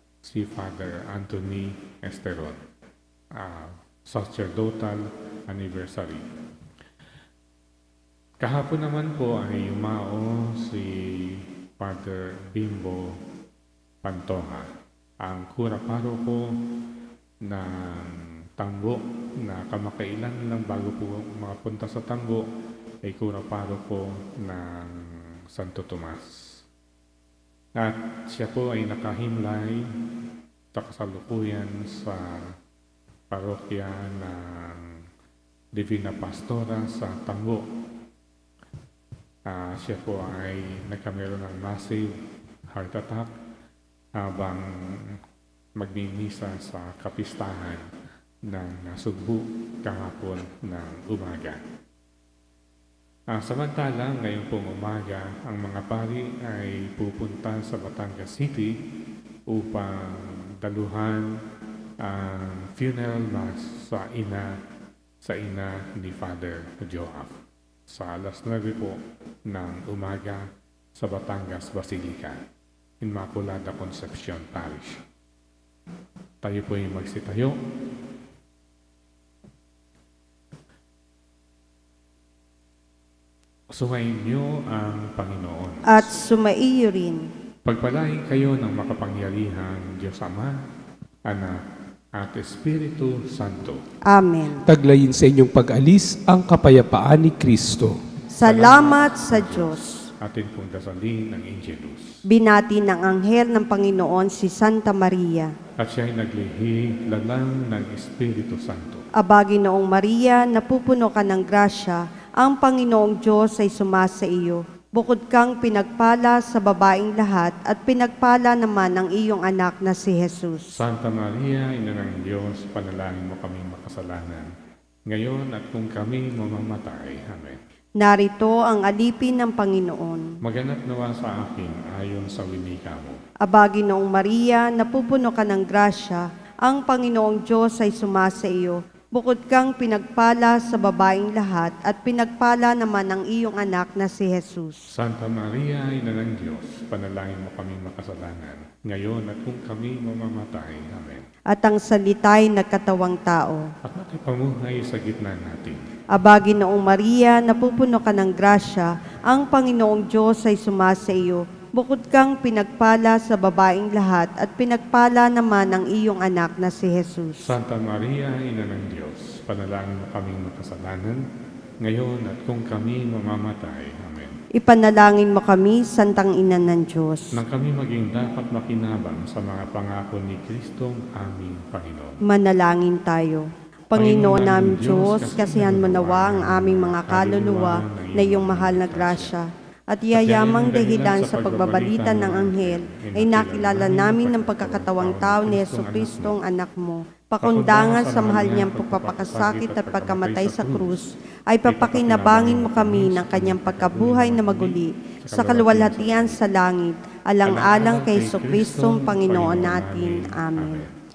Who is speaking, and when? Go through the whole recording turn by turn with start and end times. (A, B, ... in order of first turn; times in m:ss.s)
0:00.2-0:02.6 A
0:03.4-0:06.2 A
0:08.4-0:13.2 A
0:14.0-0:14.7 A
0:15.2-0:16.6 A
0:17.4-0:22.5 A
0:23.0-0:26.6 A
0:27.8-0:29.9 A
0:30.7-0:32.5 A
0:33.3-0:34.9 A
0:35.8-0:37.6 A
0:39.5-0:42.1 A
0:42.7-0:43.3 A
0:44.2-0:45.2 A
0:45.8-0:47.8 A
0:48.5-0:51.6 A
0:53.3-0:58.8 A
0:59.5-1:01.4 A
1:02.0-1:04.6 A
1:05.2-1:07.4 A
1:07.9-1:12.4 A
1:13.0-1:15.0 A
1:16.4-1:17.6 A
1:23.7-1:26.1 A
1:25.9-1:27.3 B
1:27.6-1:30.6 A
1:31.2-1:31.6 A
1:32.2-1:33.8 A
1:34.1-1:34.7 B
1:34.6-1:38.0 C
1:38.3-1:39.8 B
1:38.4-1:42.1 A
1:42.3-1:45.5 B
1:45.8-1:49.0 A
1:49.2-2:00.8 B
2:00.7-2:04.5 A
2:05.1-2:07.6 A
2:08.0-2:10.3 B
2:10.4-2:13.2 A
2:13.4-2:24.9 B
2:24.9-2:31.2 A
2:31.5-2:33.6 B
2:33.8-2:35.8 A
2:36.1-2:47.5 B
2:47.4-2:51.2 A
2:51.8-2:54.3 A
2:54.6-2:57.3 B
2:57.3-3:02.2 A
3:02.3-3:30.8 B
3:03.9-3:09.3 A
3:10.1-3:16.4 A
3:17.4-3:21.0 A
3:21.6-3:26.4 A
3:27.4-3:30.9 A